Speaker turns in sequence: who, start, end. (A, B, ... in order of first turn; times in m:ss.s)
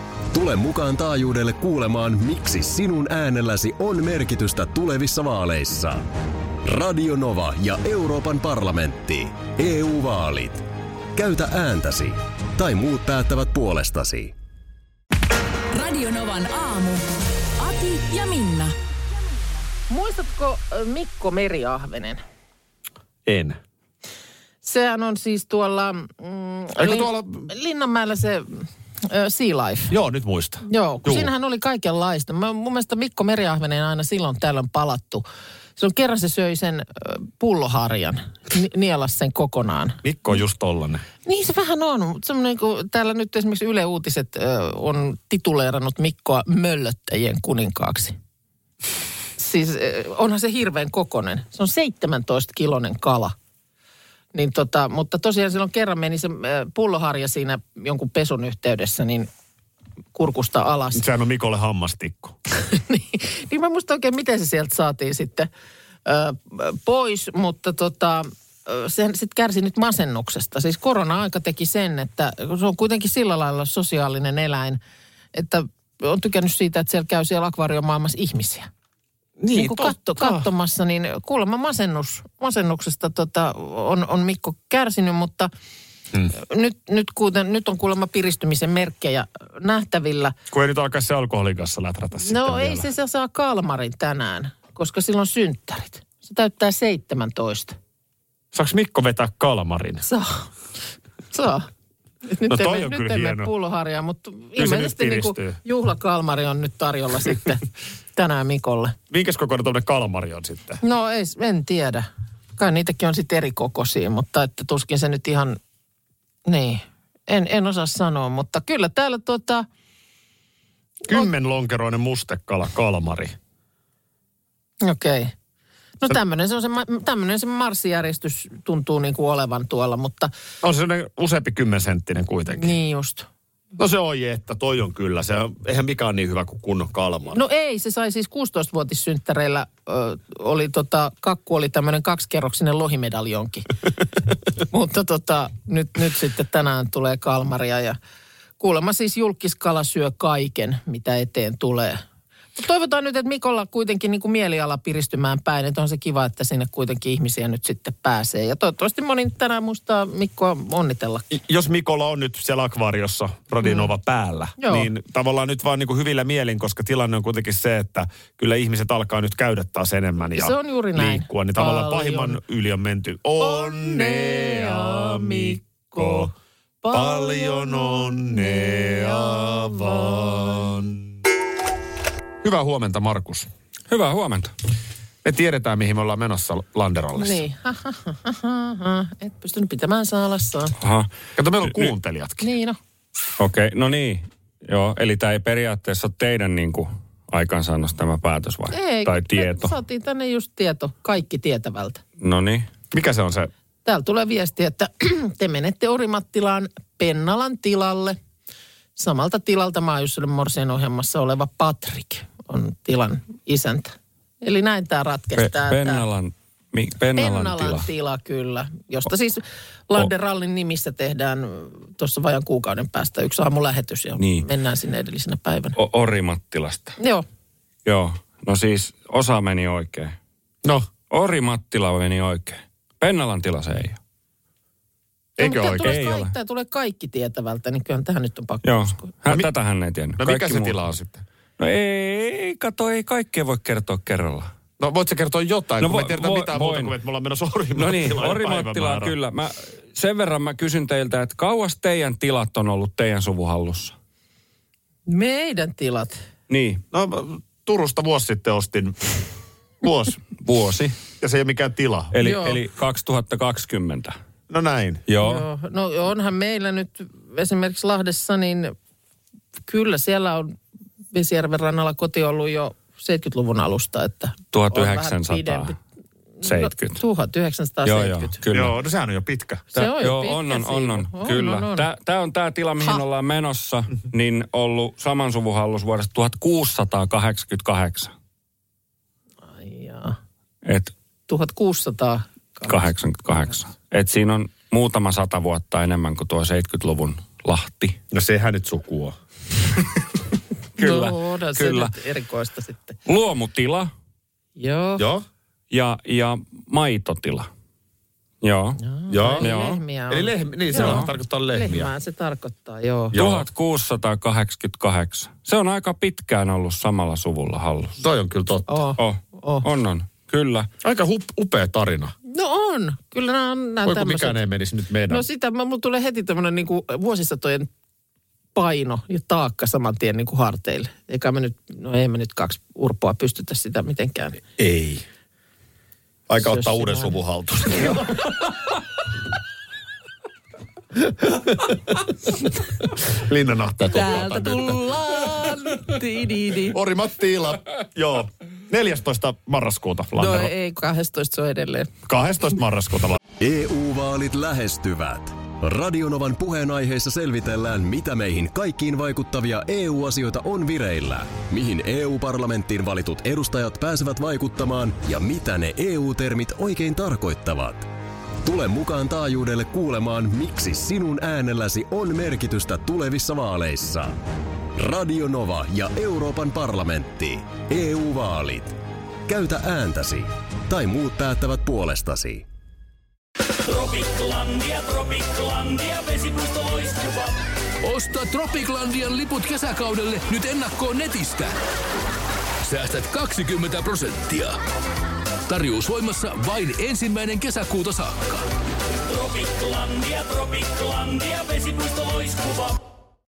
0:00.3-0:06.1 A
0:06.6-0:14.3 A
0:15.7-0:17.1 B
0:17.6-0:18.8 B
0:19.9-0:22.2 C
0:23.2-0:23.6 D
0:24.6-0:29.9 C
0:26.8-0:27.5 D
0:29.9-0:31.3 D
0:30.6-0:35.2 C
0:35.8-0:40.0 C
0:40.0-0:41.0 D
0:41.2-0:48.2 C
0:49.4-0:53.3 C
0:54.3-0:59.3 C
1:00.1-1:01.0 C
1:00.9-1:02.4 D
1:02.6-1:05.5 C
1:06.0-1:14.8 C
1:15.3-1:18.7 C
1:19.4-1:20.5 D
1:19.5-1:25.5 C
1:26.3-1:30.3 C
1:30.5-1:32.9 D
1:32.2-1:37.8 C
1:38.5-1:40.0 D
1:40.0-1:40.5 C
1:41.3-1:41.7 C
1:42.2-1:48.9 C
1:42.5-1:43.5 D
1:44.6-1:45.6 D
1:49.1-1:50.8 D
1:50.8-1:55.6 C
1:56.4-1:59.7 C
2:01.1-2:03.3 D
2:04.8-2:05.3 C
2:06.0-2:10.3 C
2:10.6-2:12.7 D
2:12.5-2:13.3 C
2:13.8-2:17.4 D
2:17.3-2:23.7 C
2:24.6-2:28.0 C
2:28.6-2:32.0 C
2:32.6-2:41.3 C
2:41.3-2:56.3 D
2:43.6-2:43.9 C
2:44.6-2:44.9 C
2:50.3-2:52.4 C
2:53.4-3:00.9 C
2:56.9-3:01.1 D
3:02.4-3:03.5 D
3:03.9-3:04.5 E
3:05.2-3:07.4 D
3:07.2-3:10.8 C
3:10.8-3:11.1 E
3:11.4-3:12.5 D
3:11.6-3:11.9 E
3:12.4-3:12.8 C
3:13.4-3:19.7 E
3:18.7-3:22.0 C
3:22.2-3:22.7 E
3:22.9-3:23.5 D
3:23.8-3:28.2 C
3:29.0-3:36.0 C
3:35.4-3:37.8 E
3:37.2-3:45.8 C
3:44.2-3:44.4 E
3:45.8-3:47.0 E
3:47.0-3:47.2 C
3:47.8-3:50.2 E
3:50.6-3:50.9 D
3:51.1-3:54.0 E
3:55.4-3:56.1 D
3:55.4-3:59.1 C
3:55.5-3:56.3 E
3:58.6-4:00.8 E
4:00.2-4:01.2 D
4:01.6-4:04.5 E
4:04.8-4:09.1 D
4:05.8-4:06.9 E
4:07.8-4:13.9 E
4:15.1-4:16.2 C
4:16.5-4:16.8 E
4:16.9-4:19.2 D
4:19.8-4:20.2 D
4:20.4-4:21.0 E
4:21.2-4:22.1 D
4:22.1-4:24.2 E
4:22.2-4:22.6 C
4:24.5-4:25.0 D
4:25.1-4:25.4 E
4:25.2-4:28.7 C
4:29.6-4:30.5 C
4:31.1-4:35.8 C
4:34.5-4:35.7 E
4:36.4-4:38.4 C
4:36.4-4:37.0 E
4:37.8-4:38.7 E
4:38.5-4:39.7 D
4:39.7-4:41.9 C
4:39.8-4:48.1 E
4:49.5-4:50.2 C
4:50.6-4:50.9 E
4:51.3-4:52.8 C
4:52.7-4:58.0 E
4:58.1-4:59.2 D
5:00.8-5:01.9 E
5:00.8-5:03.0 C
5:03.0-5:03.9 E
5:04.6-5:05.0 C
5:05.0-5:05.2 D
5:05.7-5:07.5 E
5:08.4-5:08.8 E
5:08.8-5:13.2 C
5:09.1-5:09.5 D
5:09.4-5:09.8 E
5:10.1-5:11.9 D
5:10.8-5:11.0 E
5:13.1-5:13.4 D
5:13.1-5:18.0 E
5:18.0-5:18.7 D
5:18.7-5:19.6 C
5:19.0-5:20.7 E
5:20.8-5:22.1 D
5:22.2-5:24.4 C
5:23.8-5:25.2 D
5:25.1-5:27.7 C
5:28.5-5:34.4 C
5:34.6-5:35.0 D
5:36.3-5:38.2 D
5:36.4-5:37.2 C
5:41.2-5:41.8 D
5:43.0-5:44.8 D
5:43.8-5:46.8 C
5:46.6-5:50.5 D
5:50.2-5:51.9 C
5:52.0-5:53.2 D
5:53.4-6:07.9 A
6:08.4-6:14.2 A
6:14.8-6:22.4 A
6:23.6-6:31.5 F
6:32.6-6:34.6 F
6:35.5-6:38.5 F
6:39.0-6:42.8 F